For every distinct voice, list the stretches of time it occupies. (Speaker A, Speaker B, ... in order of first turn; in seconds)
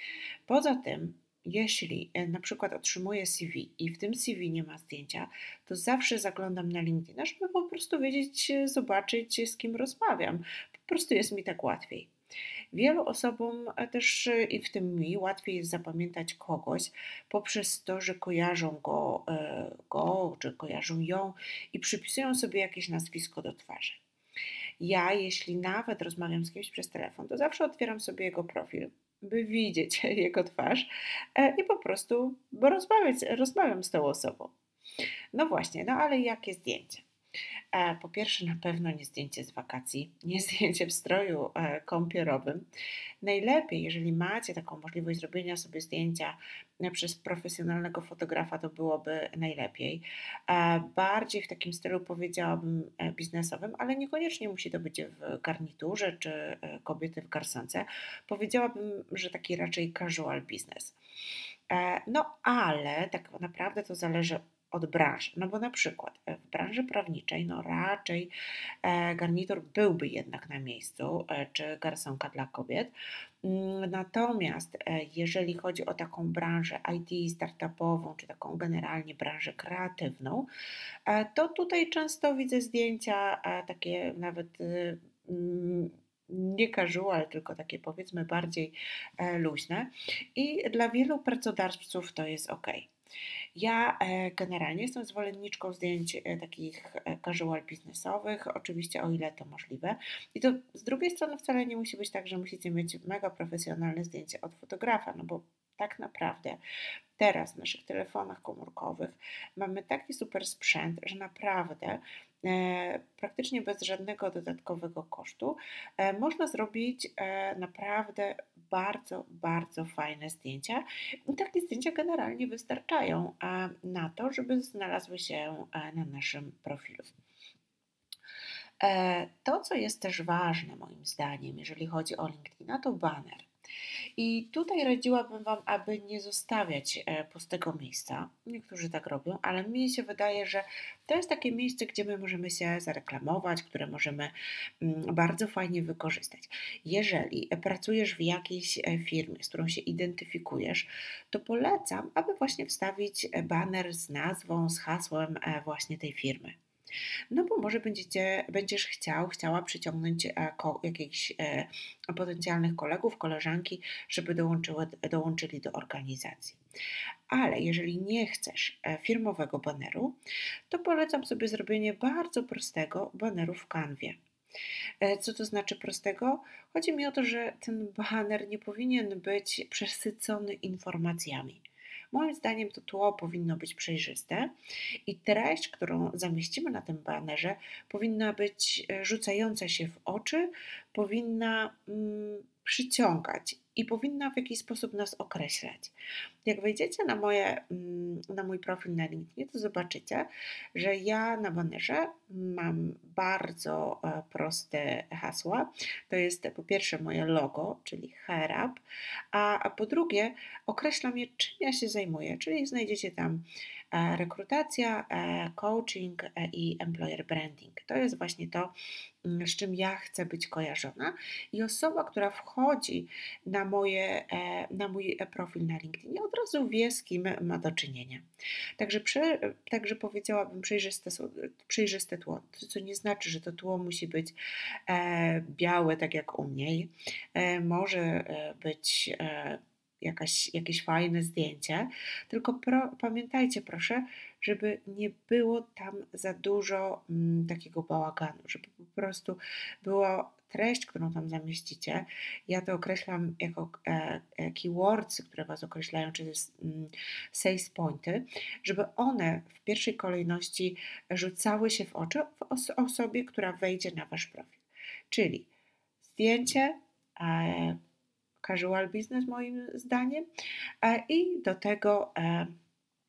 Speaker A: 0.5-12.1, 12.7-24.0, 24.8-34.5, 35.3-37.0, 37.7-42.6, 43.2-60.9, 61.7-68.3, 68.8-80.5, 81.1-92.9, 93.5-106.6, 107.2-127.1, 128.8-133.5, 134.2-156.5, 157.3-166.6, 167.3-170.2, 170.7-174.2, 175.0-184.5, 185.1-208.8, 209.3-218.7, 219.2-228.2, 228.8-234.3, 234.9-265.5, 266.0-267.8, 268.4-270.2, 270.8-272.5